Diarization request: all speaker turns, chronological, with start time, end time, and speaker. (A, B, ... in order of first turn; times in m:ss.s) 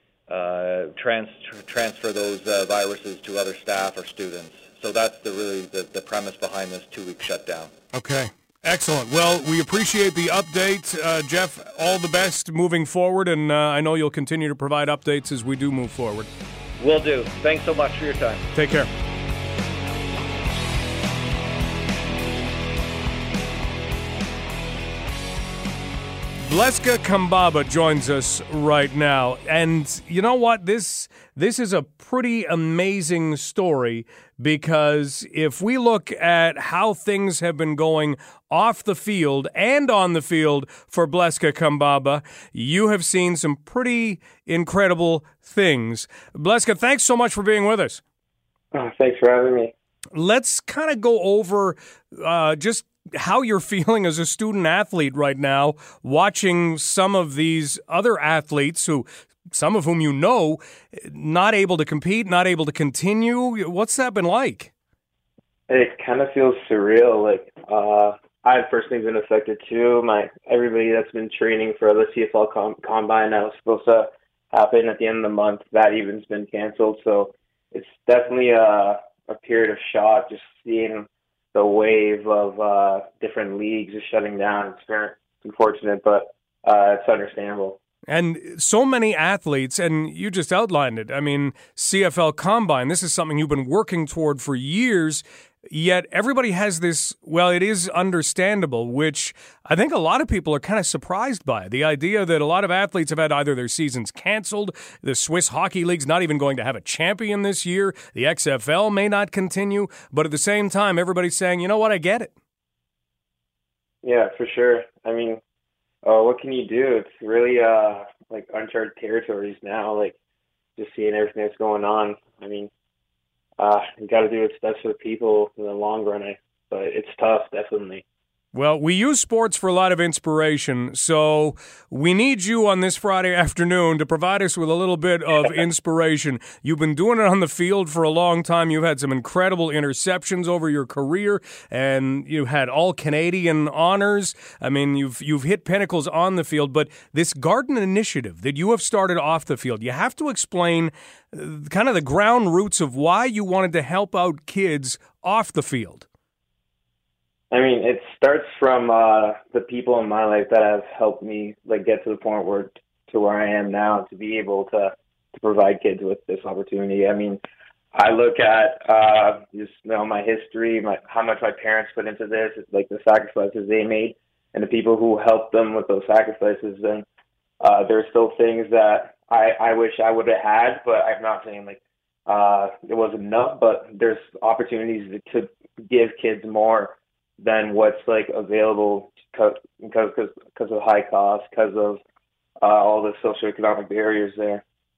0:00.3-0:07.7 A
0:07.9-0:16.3 B
0:16.8-0:18.4 A
0:18.5-0:18.9 B
0:26.4-0:48.0 B
0:48.7-0:49.7 C
0:50.1-1:04.7 B
1:05.7-1:27.8 C
1:28.1-1:52.3 B
1:54.0-1:55.4 C
1:56.0-2:00.1 C
2:00.8-2:02.7 C
2:03.6-2:08.0 C
2:08.5-2:36.1 B
2:37.5-2:47.4 C
2:47.9-2:57.0 C
2:57.6-3:12.0 C
3:12.6-3:14.6 C